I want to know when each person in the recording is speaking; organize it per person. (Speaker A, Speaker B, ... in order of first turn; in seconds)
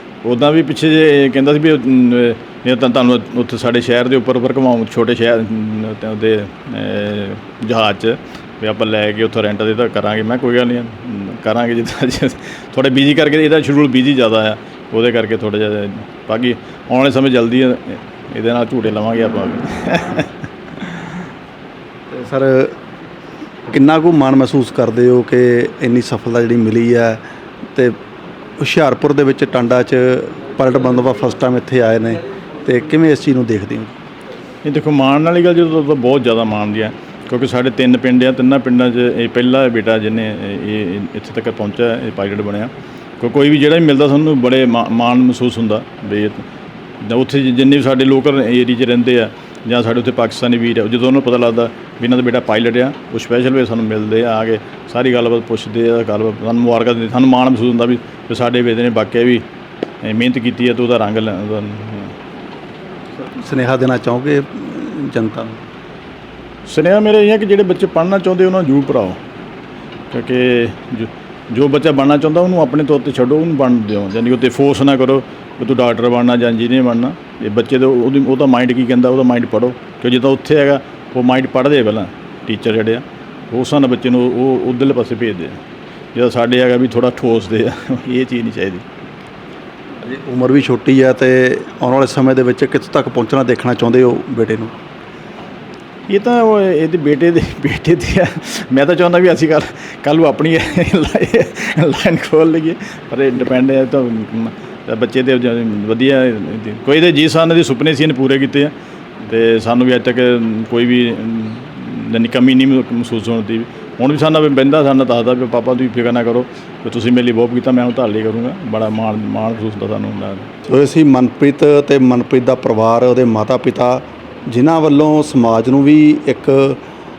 Speaker A: 0.2-20.3, 34.6-46.4, 47.0-59.4, 60.0-62.1, 66.6-69.2, 70.1-85.6, 86.1-88.8, 96.1-120.5
Speaker B: 22.1-22.7, 23.7-27.2, 28.6-33.9, 63.1-65.6, 90.0-94.7, 120.6-126.8